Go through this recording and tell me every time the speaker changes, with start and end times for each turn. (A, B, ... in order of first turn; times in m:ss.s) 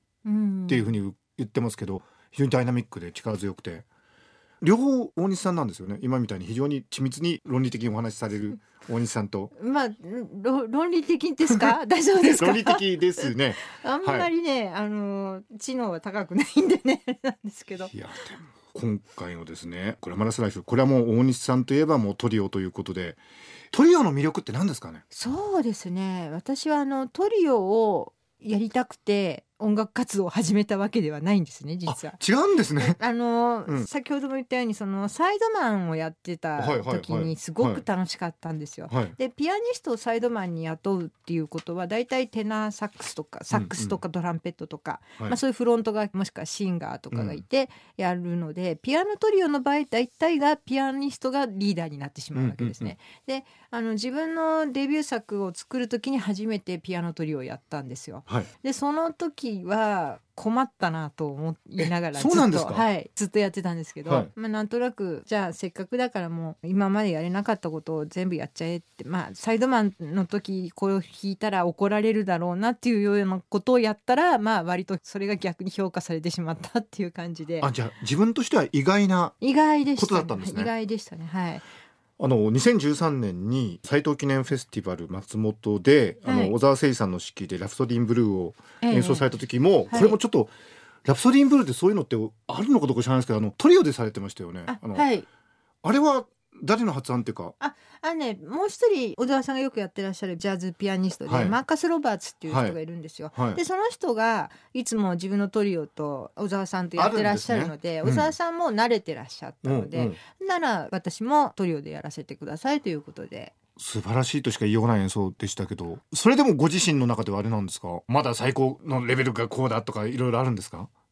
0:00.2-0:00.9 A
0:00.7-0:03.8 B
0:04.6-0:09.5 B
0:09.5-0:17.9 A
0:11.6-0:14.3 B
0:17.9-0:23.2 B
0:23.7-0:25.0 B
0:25.1-0:32.2 A
0:31.9-0:33.0 B
0:32.8-1:17.7 A
0:36.6-0:37.8 B
0:38.9-0:39.1 B
0:43.5-0:44.0 B
0:47.1-0:47.4 B
0:52.3-0:52.9 B
1:01.8-1:02.8 B
1:17.6-1:19.4 B
1:19.4-1:21.6 A
1:19.9-1:20.7 B
1:22.2-1:30.5 B
1:26.2-1:26.5 A
1:28.8-1:29.4 A
1:29.9-1:30.2 A
1:31.0-1:35.0 B
1:34.7-1:35.2 A
1:35.8-1:37.5 B
1:37.6-1:53.5 A
1:41.2-1:41.6 B
1:42.5-1:42.8 B
1:43.3-1:43.6 B
1:47.0-1:48.3 B
1:49.6-1:50.2 B
1:53.8-2:00.9 B